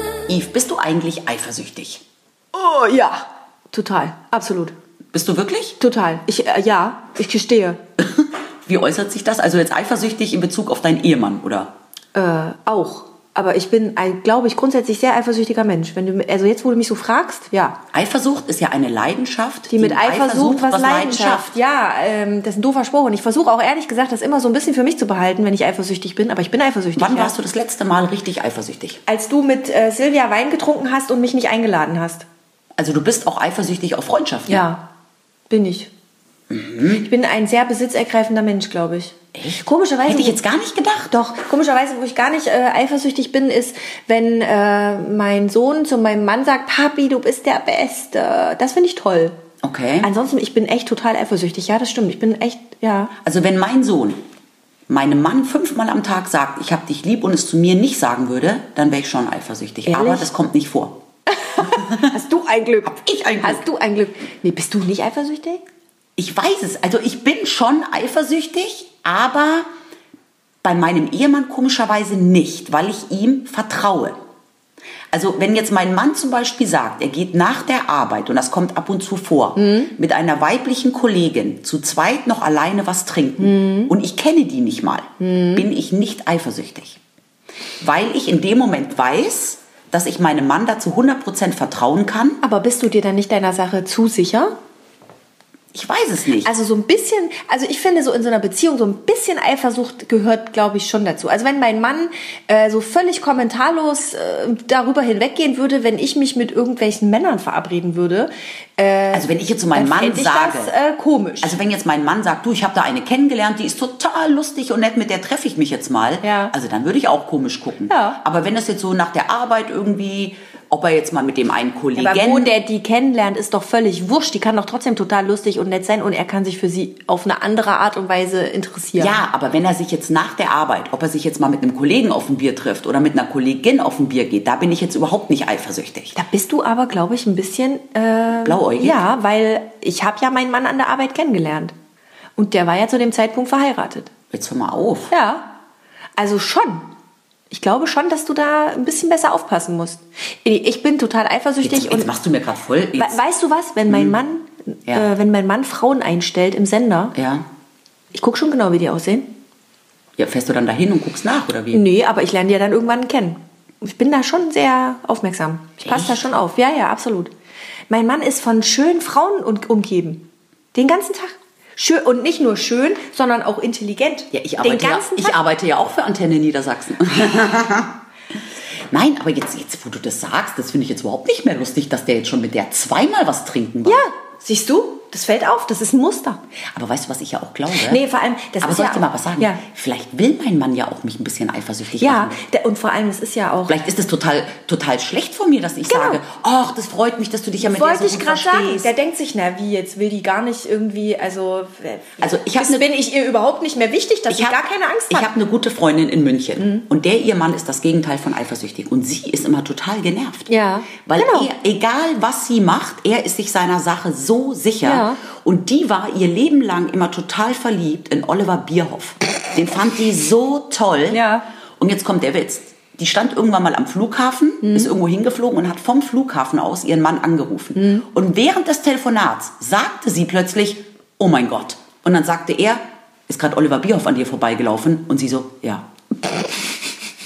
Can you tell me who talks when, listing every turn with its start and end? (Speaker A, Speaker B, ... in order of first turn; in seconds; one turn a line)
Speaker A: 0.3-2.0
Speaker B: 2.5-4.8
Speaker A: 5.1-5.8
Speaker B: 5.8-7.8
Speaker A: 8.0-11.7
Speaker B: 12.1-17.8
Speaker A: 17.9-21.6
Speaker B: 19.7-27.4
Speaker A: 27.0-29.0
Speaker B: 29.1-32.3
Speaker A: 32.8-34.7
Speaker B: 34.5-34.9
Speaker B: 35.5-35.9
Speaker A: 36.5-37.1
Speaker B: 36.9-40.4
Speaker A: 39.4-41.2
Speaker B: 41.1-49.4
Speaker A: 49.6-50.1
Speaker B: 50.0-53.1
Speaker A: 53.2-54.2
Speaker A: 54.9-61.0
Speaker B: 59.9-60.3
Speaker B: 61.4-65.6
Speaker A: 61.6-62.1
Speaker A: 62.9-63.6
Speaker A: 66.2-69.7
Speaker A: 70.6-74.2
Speaker A: 75.1-87.0
Speaker B: 79.6-79.9
Speaker B: 83.4-83.9
Speaker B: 85.2-85.7
Speaker A: 87.8-92.4
Speaker B: 92.4-94.5
Speaker A: 95.7-96.5
Speaker B: 96.4-111.6
Speaker A: 109.1-110.7
Speaker A: 111.4-122.5
Speaker B: 116.2-116.5
Speaker B: 117.9-118.2
Speaker B: 122.0-129.2
Speaker A: 129.0-136.2
Speaker B: 136.2-141.7
Speaker A: 138.4-139.1
Speaker B: 142.4-144.1
Speaker A: 144.3-145.1
Speaker B: 145.1-145.5
Speaker B: 146.2-146.9
Speaker B: 147.5-152.1
Speaker A: 151.6-153.2
Speaker B: 153.0-157.2
Speaker A: 153.9-154.2
Speaker A: 157.2-157.4
Speaker B: 158.1-159.3
Speaker A: 160.2-161.8
Speaker B: 161.7-167.3
Speaker A: 165.8-166.2
Speaker B: 167.9-175.4
Speaker A: 174.3-178.0
Speaker A: 178.9-184.1
Speaker B: 183.8-186.4
Speaker A: 186.7-188.0
Speaker B: 187.7-189.6
Speaker A: 188.6-192.4
Speaker B: 192.0-193.8
Speaker A: 193.7-198.9
Speaker B: 195.8-196.2
Speaker B: 197.6-205.3
Speaker A: 202.2-202.9
Speaker A: 204.3-210.5
Speaker B: 206.6-206.9
Speaker B: 210.5-211.5
Speaker A: 211.1-221.2
Speaker B: 214.8-215.2
Speaker B: 221.1-221.5
Speaker A: 221.8-235.9
Speaker B: 224.6-224.9
Speaker B: 227.8-228.1